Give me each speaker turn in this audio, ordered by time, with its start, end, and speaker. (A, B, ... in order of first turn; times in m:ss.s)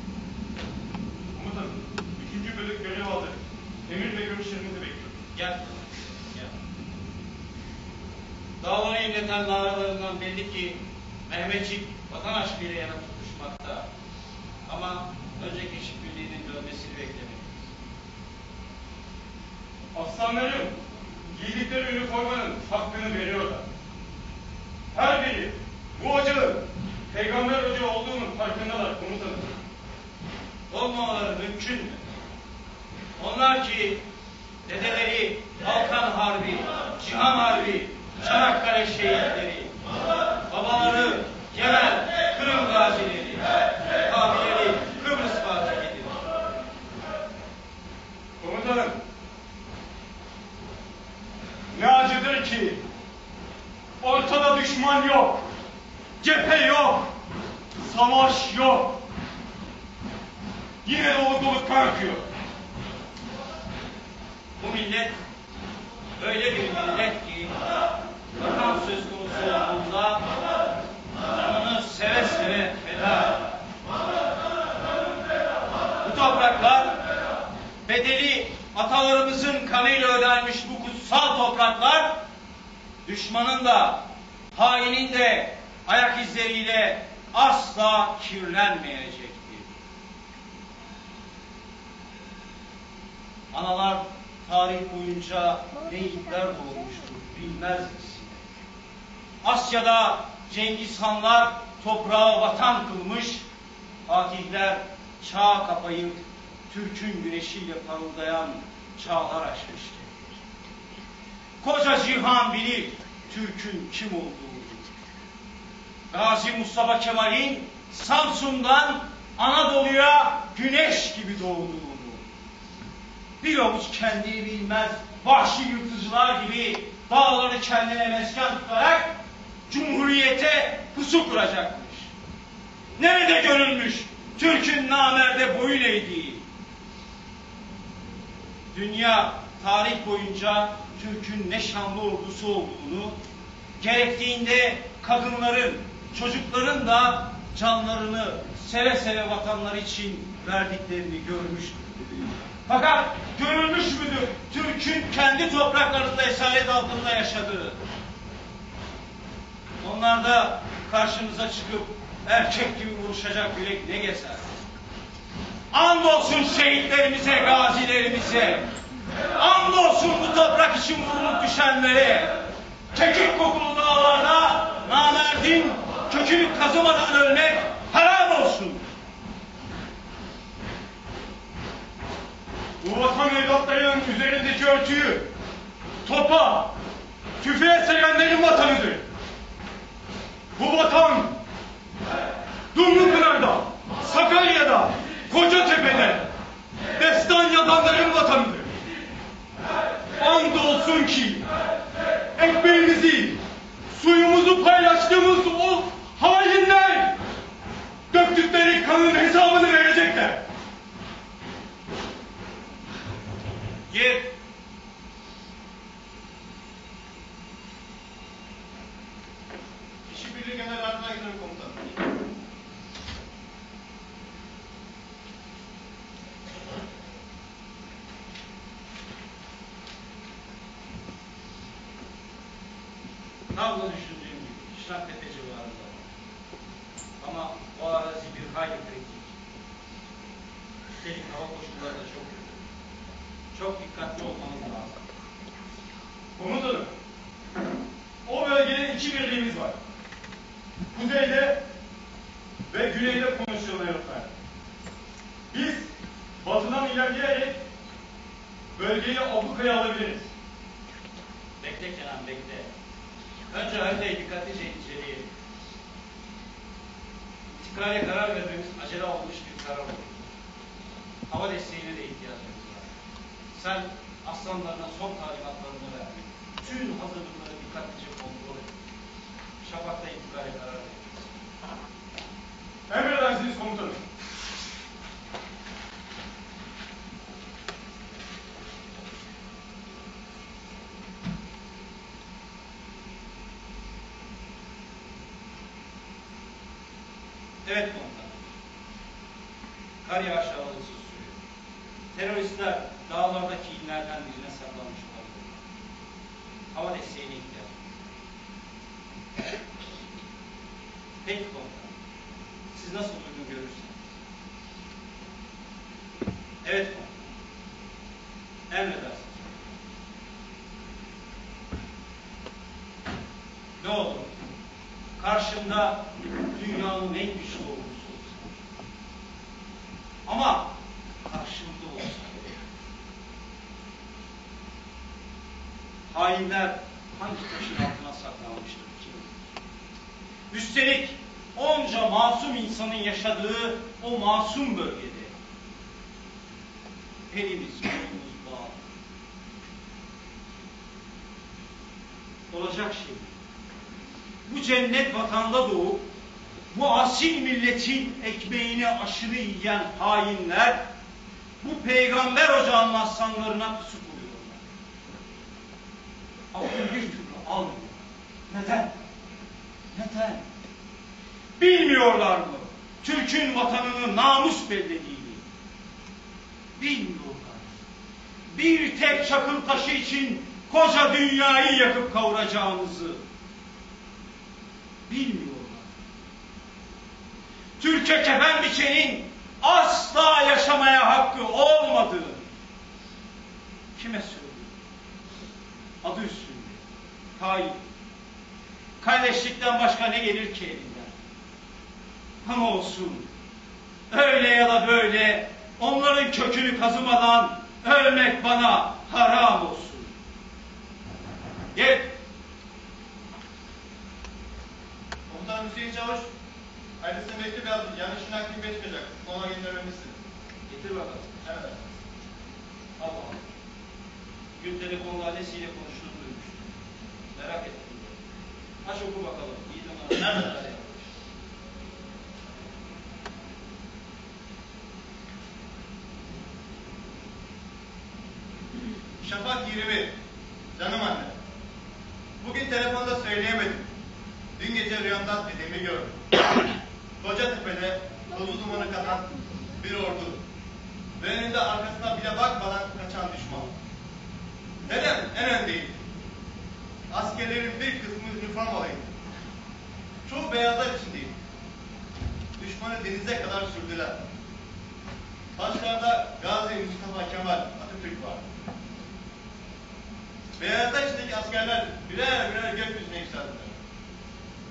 0:01.3-0:05.2 A
0:05.3-0:06.5 B
0:08.6-0:13.9 B
0:14.7-0:17.7 B
0:19.9-0:20.8 A
0:21.3-0:23.6 A
0:24.9-0:29.5 A
0:30.7-0:32.0 B
0:33.2-0:34.0 B
0:34.7-0:39.8 B
0:40.5-0:46.2 B
0:48.4-0:49.0 A
0:51.7-0:52.8 A
0:54.0-0:55.5 A
0:56.2-0:57.0 B
0:56.2-0:57.0 A
0:57.8-0:59.0 A
1:00.8-1:02.2 A
1:04.6-1:05.2 B
1:06.2-1:07.6 B
1:08.4-1:10.3 B
1:11.3-1:13.5 B
1:16.0-1:17.0 B
1:17.8-1:22.2 B
1:23.0-1:29.7 B
1:33.5-1:38.4 B
1:39.4-1:43.4 B
1:44.1-1:50.1 B
1:51.6-1:54.9 B
1:56.1-2:02.2 B
2:03.4-2:09.2 B
2:09.7-2:12.1 B
2:13.0-2:16.4 B
2:18.7-2:23.2 B
2:23.8-2:31.9 B
2:32.7-2:37.8 B
2:39.8-2:44.4 B
2:45.7-2:48.7 B
2:49.3-2:52.4 B
2:52.9-2:58.8 B
3:02.8-3:05.3 A
3:06.0-3:06.7 A
3:07.4-3:09.0 A
3:10.6-3:11.4 A
3:12.7-3:16.3 A
3:17.0-3:18.7 A
3:20.2-3:21.5 A
3:22.4-3:23.4 A
3:23.9-3:27.2 A
3:28.1-3:30.4 A
3:33.9-3:34.3 B
3:40.1-3:41.8 C
3:53.5-3:56.1 B
3:57.2-3:59.4 B
4:01.0-4:02.6 B
4:03.5-4:05.0 B
4:06.4-4:06.9 A
4:08.2-4:09.8 A
4:10.9-4:11.6 A
4:12.7-4:14.3 A
4:15.5-4:15.9 A
4:16.4-4:17.6 A
4:18.8-4:20.3 A
4:21.6-4:22.7 B
4:23.5-4:25.3 B
4:27.5-4:30.2 B
4:31.3-4:32.9 B
4:33.5-4:38.7 B
4:39.6-4:41.3 B
4:42.9-4:44.0 A
4:57.6-4:58.4 B
5:00.0-5:01.4 B
5:02.1-5:05.6 B
5:06.7-5:07.8 B
5:11.2-5:11.9 B
5:12.7-5:14.0 B
5:16.6-5:17.3 B
5:18.7-5:19.6 B
5:23.8-5:24.4 B
5:25.2-5:28.5 B
5:30.3-5:32.4 B
5:36.1-5:39.3 B
5:40.5-5:45.3 B
5:47.3-5:48.8 B
5:52.5-5:53.3 B
5:54.5-5:56.1 B
5:56.7-6:00.8 B
6:01.6-6:04.6 B
6:06.5-6:08.9 B
6:09.9-6:10.4 B
6:11.6-6:15.4 B
6:16.8-6:17.7 B
6:18.5-6:23.2 B
6:25.1-6:25.9 B
6:27.8-6:32.5 B
6:34.0-6:34.7 B
6:36.0-6:36.8 B
6:37.4-6:37.8 B
6:39.0-6:41.1 B
6:42.4-6:43.3 B
6:44.1-6:50.1 B
6:51.8-6:52.1 B
6:55.3-6:56.3 C
6:57.0-7:00.2 C
7:00.7-7:01.4 B
7:01.4-7:01.8 C
7:03.0-7:03.5 B
7:04.6-7:06.6 B
7:07.4-7:08.2 B
7:08.8-7:11.1 B
7:19.2-7:20.2 C
7:20.8-7:21.3 C
7:22.4-7:23.9 C
7:24.6-7:26.2 C
7:27.2-7:30.4 C
7:31.2-7:33.7 C
7:34.8-7:36.0 C
7:37.1-7:39.1 C
7:40.3-7:41.3 C
7:42.6-7:44.2 C
7:45.6-7:48.4 C
7:50.6-7:53.7 C